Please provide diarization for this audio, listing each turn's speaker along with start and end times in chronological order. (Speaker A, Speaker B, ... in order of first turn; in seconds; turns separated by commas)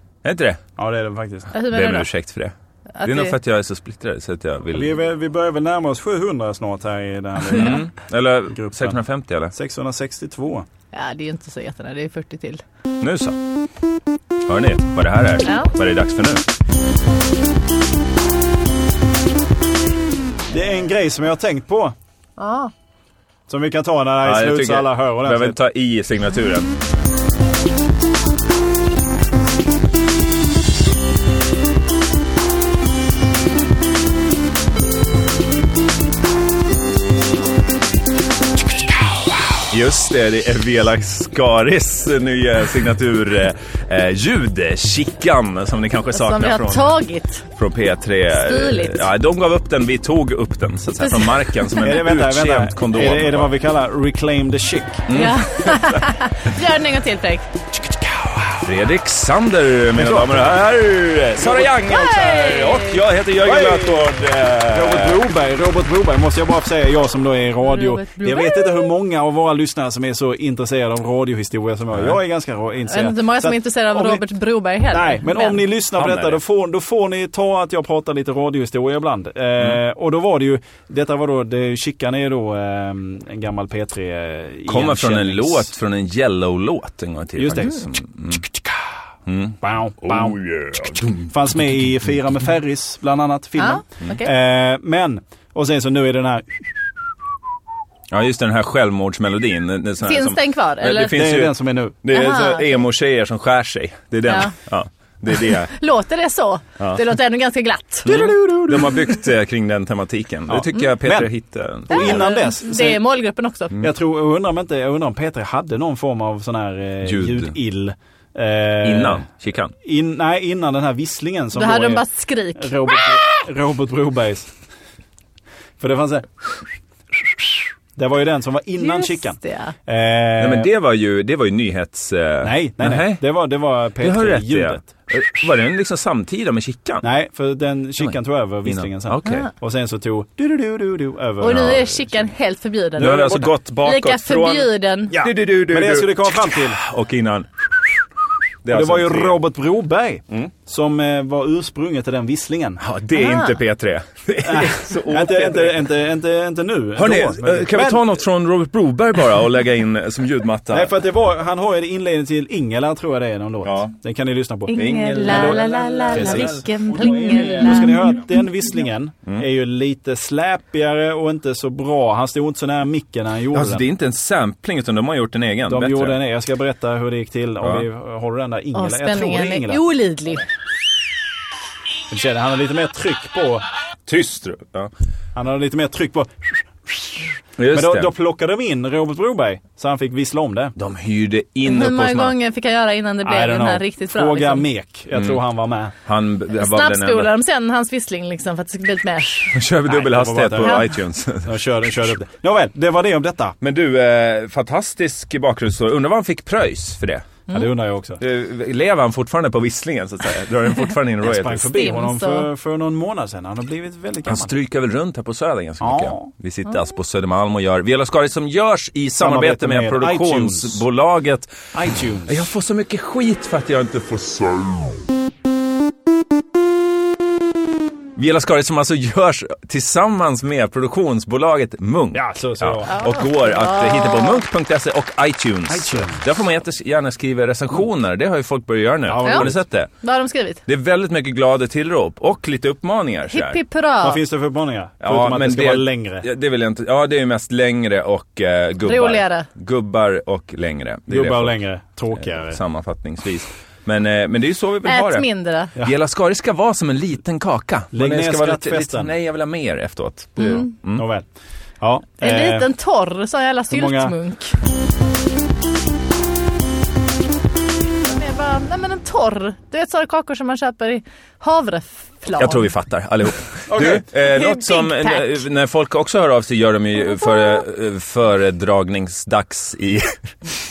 Speaker A: 0.2-0.6, Speaker B: 0.8-1.5, Speaker C: 1.5-2.1, Speaker A: 1.7-4.9, Speaker C: 3.0-3.3, Speaker B: 4.7-7.9, Speaker A: 7.5-9.5, Speaker B: 8.5-9.0, Speaker B: 9.5-10.7, Speaker C: 10.9-12.6, Speaker A: 13.0-13.3, Speaker A: 14.5-16.4, Speaker C: 15.4-15.7, Speaker B: 20.5-21.9, Speaker C: 22.4-22.7, Speaker B: 23.5-25.6, Speaker A: 24.2-26.7, Speaker A: 39.7-46.9, Speaker C: 46.1-47.4, Speaker A: 47.5-53.5, Speaker C: 48.3-49.1, Speaker C: 51.0-51.9, Speaker B: 51.8-55.1, Speaker A: 55.1-56.0, Speaker C: 55.1-57.5, Speaker B: 57.7-58.7, Speaker A: 58.6-65.2, Speaker B: 59.9-60.5, Speaker B: 61.4-61.8, Speaker C: 61.8-63.0, Speaker B: 63.4-74.2, Speaker C: 67.6-68.8, Speaker A: 71.9-72.2, Speaker C: 72.9-75.6, Speaker B: 74.9-85.7, Speaker A: 75.9-76.4, Speaker A: 84.7-88.4, Speaker B: 87.4-89.0, Speaker A: 89.3-91.3, Speaker B: 89.6-90.4, Speaker B: 91.2-97.0, Speaker C: 93.6-94.3, Speaker A: 98.1-105.7, Speaker C: 100.0-101.2, Speaker B: 101.1-102.0, Speaker C: 102.1-102.8, Speaker C: 104.3-104.5, Speaker C: 105.3-108.2, Speaker B: 108.0-109.2, Speaker A: 108.0-112.3, Speaker B: 110.5-111.3, Speaker B: 111.9-113.0, Speaker C: 111.9-113.8, Speaker B: 113.8-119.2, Speaker A: 117.0-117.5, Speaker A: 118.8-119.7, Speaker B: 119.8-122.0, Speaker C: 121.5-123.2, Speaker B: 122.6-124.5, Speaker B: 125.8-126.5, Speaker B: 127.1-130.7, Speaker C: 128.8-129.7, Speaker A: 130.4-133.2, Speaker B: 132.4-135.4, Speaker A: 134.0-137.1, Speaker B: 137.0-141.9, Speaker A: 138.0-139.4, Speaker C: 141.4-143.2, Speaker A: 141.4-141.8, Speaker B: 143.0-143.5, Speaker A: 143.0-148.0, Speaker C: 143.8-145.2, Speaker B: 145.1-146.8, Speaker A: 148.6-149.4, Speaker B: 148.7-152.8, Speaker A: 152.8-155.9, Speaker C: 153.1-153.6, Speaker B: 154.4-158.0, Speaker A: 156.9-160.9, Speaker B: 160.7-173.9, Speaker A: 163.6-163.9, Speaker C: 164.7-168.4, Speaker A: 164.7-166.6, Speaker A: 173.5-176.2, Speaker B: 175.7-179.8, Speaker C: 178.7-180.4, Speaker B: 182.1-183.6, Speaker A: 184.1-184.9, Speaker B: 185.3-190.7, Speaker A: 187.6-188.1, Speaker A: 190.8-192.3, Speaker C: 191.6-194.6, Speaker B: 193.2-195.9, Speaker A: 196.1-197.3, Speaker C: 196.5-199.6, Speaker A: 199.4-201.5, Speaker B: 199.8-203.6, Speaker C: 200.6-200.9, Speaker A: 203.6-207.2, Speaker B: 207.5-208.2, Speaker A: 208.2-211.7, Speaker B: 211.2-214.6, Speaker C: 211.7-212.5, Speaker A: 214.2-221.7, Speaker B: 215.8-216.3, Speaker B: 219.2-220.8, Speaker B: 221.7-222.5, Speaker A: 222.3-225.0, Speaker A: 228.2-239.9, Speaker B: 232.1-232.9, Speaker C: 232.9-234.4, Speaker B: 235.7-236.2, Speaker B: 239.1-239.6, Speaker C: 239.2-239.5, Speaker C: 240.0-240.6, Speaker A: 240.7-243.6, Speaker C: 243.3-244.2, Speaker B: 244.0-246.2, Speaker A: 245.0-251.5, Speaker C: 248.8-249.5, Speaker B: 251.1-252.6, Speaker A: 252.3-261.0, Speaker C: 254.8-255.7, Speaker B: 257.9-259.1, Speaker C: 260.4-260.7, Speaker B: 260.9-261.3, Speaker B: 261.8-262.7, Speaker C: 262.2-264.6, Speaker B: 263.7-264.1, Speaker C: 268.0-272.7, Speaker A: 272.4-280.6, Speaker B: 273.7-274.0, Speaker C: 274.1-275.4, Speaker C: 277.0-277.6